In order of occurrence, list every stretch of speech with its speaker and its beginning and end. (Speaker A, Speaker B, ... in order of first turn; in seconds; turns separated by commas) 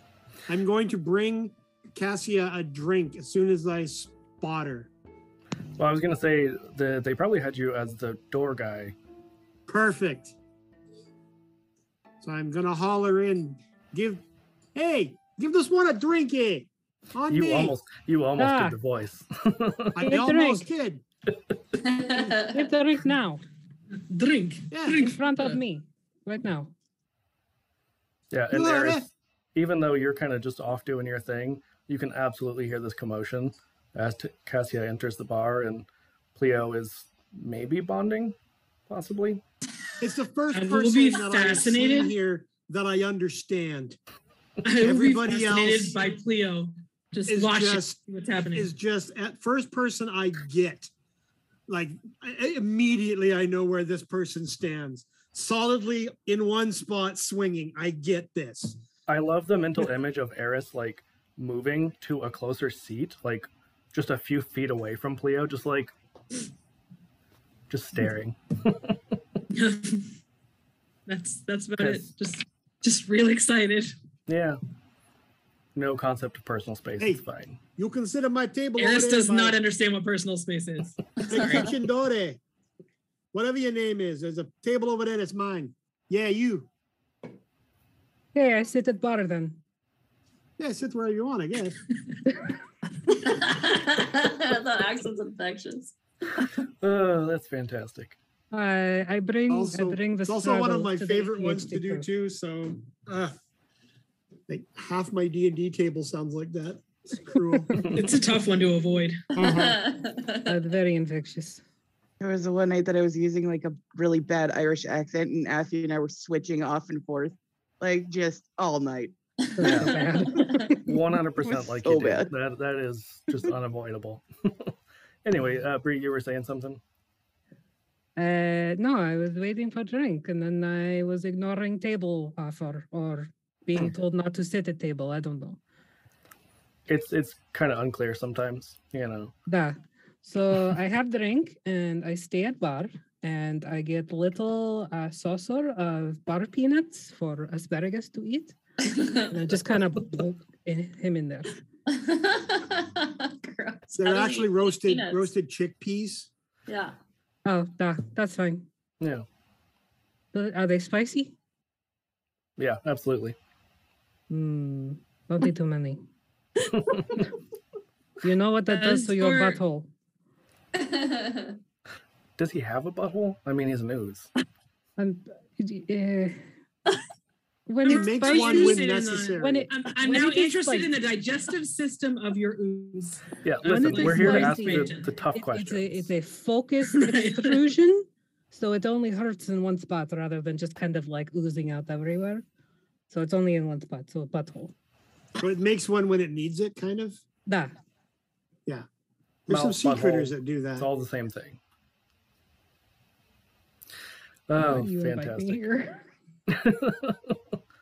Speaker A: 0.5-4.9, Speaker B: 5.8-8.9, Speaker A: 9.7-10.3, Speaker A: 12.2-14.2, Speaker A: 14.8-17.8, Speaker B: 17.3-20.0, Speaker C: 18.4-18.8, Speaker A: 19.9-21.0, Speaker C: 20.0-20.7, Speaker D: 21.9-22.5, Speaker C: 22.1-23.4, Speaker E: 24.1-25.6, Speaker A: 24.7-25.1, Speaker C: 24.9-26.7, Speaker B: 28.3-38.4, Speaker A: 28.5-29.1, Speaker B: 38.9-39.4, Speaker A: 40.0-44.0, Speaker E: 40.5-42.2, Speaker E: 44.6-48.7, Speaker A: 44.8-46.0, Speaker A: 47.3-50.9, Speaker A: 51.7-58.8, Speaker B: 59.1-65.9, Speaker B: 67.7-69.0, Speaker E: 69.5-70.1, Speaker E: 71.1-73.9, Speaker B: 71.8-72.1, Speaker B: 74.3-74.6, Speaker B: 75.8-77.6, Speaker A: 77.8-79.6, Speaker E: 78.8-81.7, Speaker A: 81.3-82.4, Speaker A: 83.3-86.7, Speaker C: 88.3-89.6, Speaker A: 90.6-91.8, Speaker D: 93.1-96.0, Speaker B: 96.8-98.2, Speaker C: 98.5-102.1, Speaker A: 99.5-103.3, Speaker A: 104.5-107.8, Speaker E: 107.9-109.3, Speaker A: 109.4-109.8, Speaker D: 109.4-110.4, Speaker C: 110.5-111.6, Speaker F: 112.2-119.1, Speaker C: 119.6-120.9, Speaker B: 119.6-120.1, Speaker B: 120.8-124.7, Speaker F: 121.4-122.3, Speaker B: 125.2-126.8, Speaker C: 128.2-135.6, Speaker B: 136.9-139.3, Speaker C: 139.5-148.6, Speaker C: 149.3-151.6, Speaker D: 151.9-155.3, Speaker A: 154.0-156.3, Speaker D: 156.7-157.0, Speaker C: 157.4-158.7, Speaker B: 159.0-159.2, Speaker C: 160.3-161.3, Speaker B: 162.6-163.4, Speaker C: 164.3-166.0, Speaker B: 166.7-167.1, Speaker C: 168.2-169.9, Speaker E: 168.7-169.6, Speaker D: 170.8-171.6, Speaker B: 172.4-174.3, Speaker C: 175.0-176.4, Speaker C: 177.7-180.9, Speaker E: 177.8-185.1, Speaker A: 177.9-179.7, Speaker B: 183.4-186.1, Speaker C: 183.6-192.4, Speaker E: 186.9-187.7, Speaker C: 193.1-194.7, Speaker A: 195.4-197.2, Speaker C: 197.5-197.8, Speaker A: 199.5-200.9, Speaker B: 199.5-201.6, Speaker B: 204.5-205.6, Speaker C: 204.6-206.1, Speaker B: 206.5-207.4